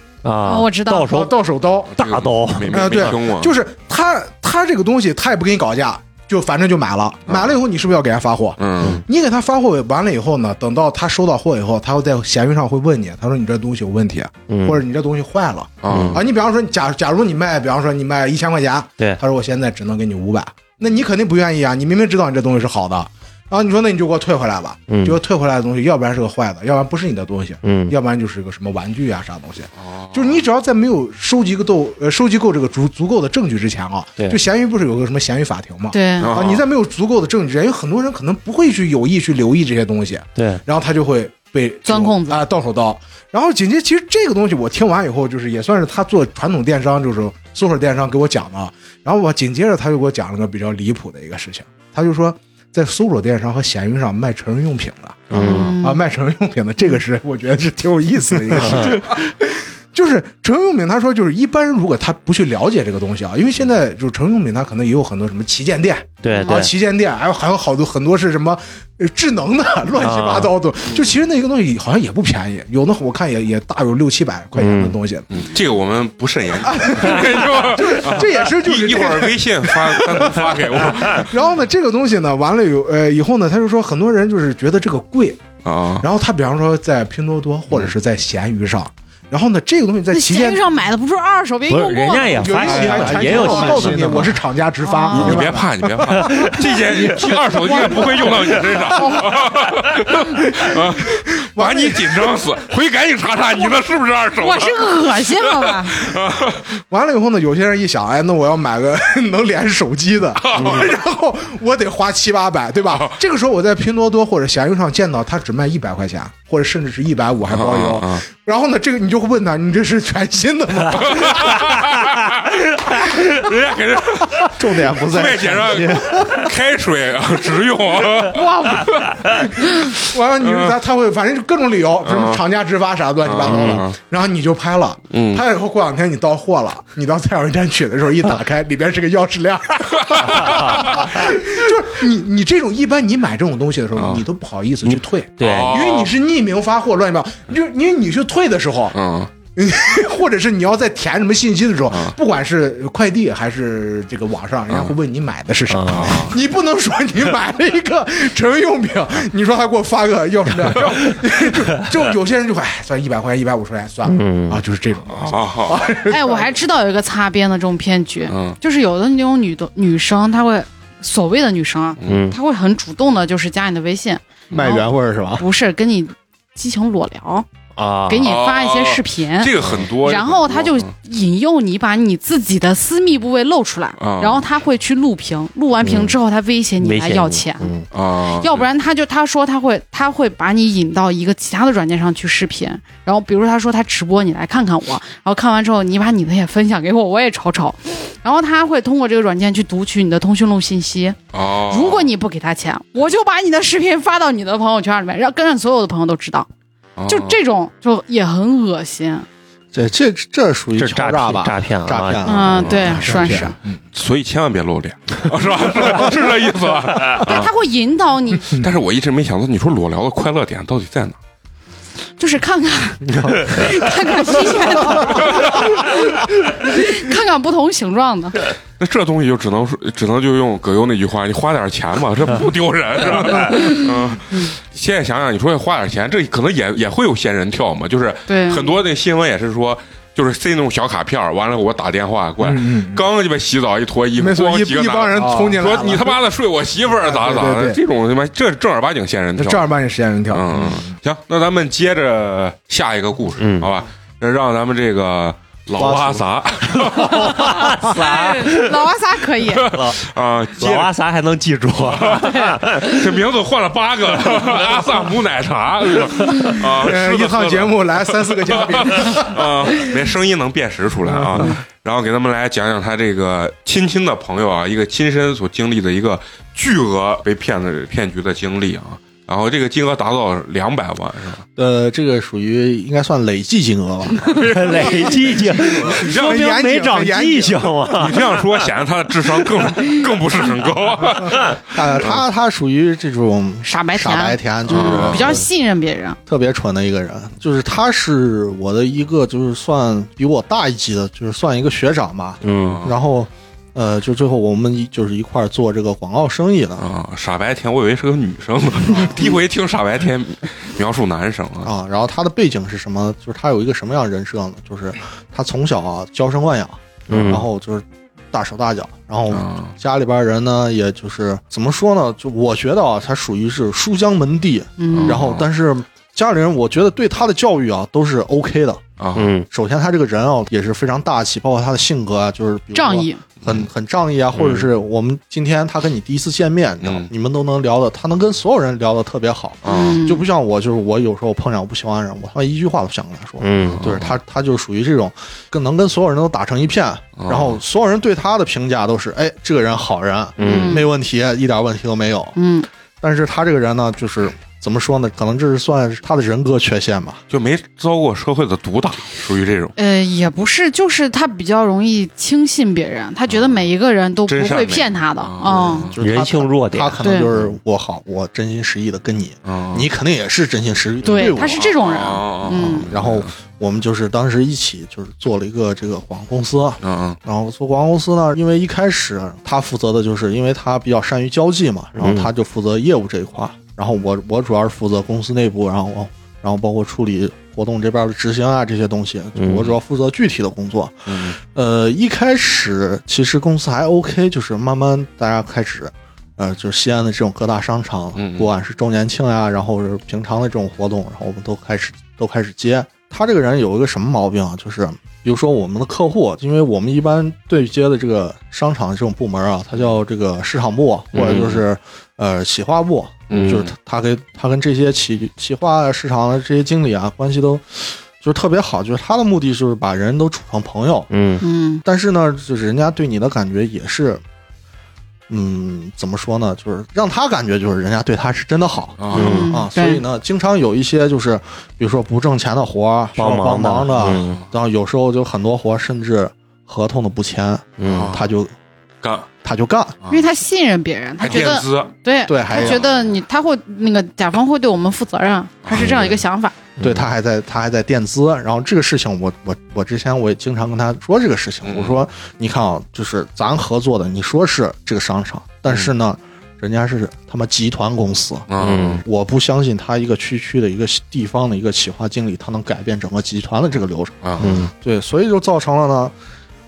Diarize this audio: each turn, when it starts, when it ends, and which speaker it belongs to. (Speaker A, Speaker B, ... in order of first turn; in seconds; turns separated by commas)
Speaker A: 0.2-1.3, Speaker B: 0.4-1.2, Speaker C: 1.1-1.9, Speaker A: 2.0-3.1, Speaker D: 2.0-3.5, Speaker C: 2.7-75.3, Speaker D: 7.3-7.5, Speaker D: 8.6-9.0, Speaker A: 14.5-14.8, Speaker D: 15.8-16.2, Speaker A: 15.9-16.2, Speaker A: 24.9-25.2, Speaker A: 27.6-27.9, Speaker D: 29.8-30.4, Speaker B: 35.9-36.3, Speaker D: 36.2-36.6, Speaker A: 40.4-40.6, Speaker B: 41.9-42.4, Speaker A: 55.3-55.8, Speaker B: 55.3-56.0, Speaker A: 58.6-59.0, Speaker A: 66.2-66.7, Speaker B: 66.3-66.7, Speaker A: 70.0-70.5, Speaker A: 74.6-75.0, Speaker D: 75.3-81.3, Speaker C: 76.6-85.4, Speaker D: 85.6-86.1, Speaker C: 86.0-90.6, Speaker B: 90.1-93.8, Speaker A: 91.7-94.3, Speaker C: 92.3-99.4, Speaker E: 92.6-94.3, Speaker B: 94.8-95.4, Speaker D: 95.1-106.6, Speaker A: 96.1-96.6, Speaker C: 100.1-102.4, Speaker B: 104.4-106.0, Speaker C: 106.9-121.7, Speaker D: 110.4-110.9, Speaker D: 117.5-118.2, Speaker D: 120.9-130.8, Speaker E: 124.5-126.5, Speaker C: 128.2-149.0, Speaker D: 132.0-132.4, Speaker D: 133.2-134.0, Speaker A: 133.4-133.8, Speaker D: 135.1-135.4, Speaker D: 140.0-141.1, Speaker A: 140.5-140.9, Speaker D: 143.9-144.2, Speaker A: 144.8-145.8, Speaker D: 145.4-146.1, Speaker D: 148.9-149.3, Speaker C: 149.6-166.6, Speaker A: 155.7-156.2, Speaker D: 155.9-156.3, Speaker A: 164.1-164.6, Speaker D: 165.1-165.9, Speaker B: 166.1-174.8, Speaker D: 168.3-168.6, Speaker A: 172.0-172.4, Speaker E: 174.5-175.4, Speaker B: 175.4-177.4, Speaker A: 177.8-178.3, Speaker B: 178.1-187.7, Speaker D: 178.2-180.9, Speaker D: 184.0-184.5, Speaker A: 185.8-186.1, Speaker A: 186.8-187.9, Speaker D: 187.9-188.7, Speaker B: 188.3-206.5, Speaker D: 201.3-202.1, Speaker D: 206.9-207.4, Speaker B: 207.1-209.2, Speaker E: 209.7-213.5, Speaker A: 210.8-212.5, Speaker B: 212.2-213.6, Speaker D: 212.6-213.0, Speaker C: 213.1-213.8, Speaker D: 213.9-217.5, Speaker B: 217.2-218.5, Speaker D: 218.5-221.2, Speaker B: 222.2-228.4, Speaker D: 225.0-225.7, Speaker D: 228.8-249.7, Speaker B: 233.5-233.8, Speaker B: 238.3-238.7, Speaker C: 242.4-243.0, Speaker C: 244.2-246.2, Speaker C: 246.9-247.8, Speaker C: 249.3-250.9, Speaker D: 250.3-257.8, Speaker A: 253.4-253.7, Speaker E: 255.8-257.1, Speaker A: 257.1-258.9, Speaker B: 257.8-259.7, Speaker D: 259.5-260.9, Speaker A: 259.6-260.0, Speaker A: 260.6-263.1, Speaker D: 261.9-281.5, Speaker B: 262.1-262.6, Speaker C: 266.6-269.8, Speaker C: 271.1-271.5, Speaker E: 281.6-285.0, Speaker A: 284.3-288.4, Speaker D: 284.5-285.1, Speaker D: 285.8-286.5, Speaker C: 285.8-287.9, Speaker D: 288.0-292.2, Speaker E: 291.7-295.5, Speaker B: 293.6-296.2, Speaker D: 294.7-295.4, Speaker E: 296.3-306.8, Speaker A: 302.4-302.8, Speaker D: 302.4-302.9, Speaker D: 306.8-311.7, Speaker E: 308.9-309.2, Speaker E: 311.6-328.8, Speaker A: 317.1-317.5, Speaker D: 319.3-319.7, Speaker B: 324.8-325.2, Speaker D: 324.9-325.5, Speaker D: 329.0-329.3, Speaker A: 329.1-329.5, Speaker E: 329.5-352.4, Speaker B: 332.7-333.2, Speaker D: 333.4-333.7, Speaker D: 334.3-334.7, Speaker D: 336.8-337.1, Speaker D: 339.6-340.0, Speaker B: 339.6-340.3, Speaker A: 343.4-343.9, Speaker D: 343.6-344.2, Speaker D: 347.2-347.6, Speaker A: 350.4-350.9, Speaker B: 350.4-350.9, Speaker B: 352.4-352.7, Speaker E: 353.0-357.2, Speaker D: 357.3-359.7, Speaker B: 359.8-365.9, Speaker D: 363.3-363.6, Speaker D: 364.3-366.0, Speaker E: 365.5-371.7, Speaker A: 366.0-367.0, Speaker B: 367.0-367.3, Speaker D: 369.4-369.9, Speaker B: 371.0-372.9, Speaker D: 371.2-373.3, Speaker E: 372.5-421.1, Speaker D: 376.8-377.2, Speaker A: 381.9-382.3, Speaker A: 389.4-389.7, Speaker D: 391.1-391.4, Speaker D: 398.1-398.5, Speaker A: 411.1-411.5, Speaker D: 411.2-411.6, Speaker D: 413.3-413.7, Speaker A: 421.1-421.4, Speaker B: 421.4-421.8, Speaker E: 421.8-424.2, Speaker E: 425.3-438.5, Speaker D: 429.0-429.5, Speaker A: 429.1-429.6, Speaker B: 429.1-430.0, Speaker A: 433.2-434.4, Speaker D: 434.0-434.4, Speaker A: 437.8-438.2, Speaker D: 437.8-438.3, Speaker D: 439.0-439.3, Speaker E: 439.4-440.0, Speaker B: 440.1-446.5, Speaker D: 441.2-441.9, Speaker E: 442.3-442.8, Speaker D: 442.5-443.2, Speaker D: 445.6-446.1, Speaker A: 446.8-447.1, Speaker E: 446.8-466.1, Speaker D: 451.6-452.0, Speaker D: 458.5-459.0, Speaker A: 458.6-459.0, Speaker D: 464.2-464.5, Speaker A: 464.4-464.7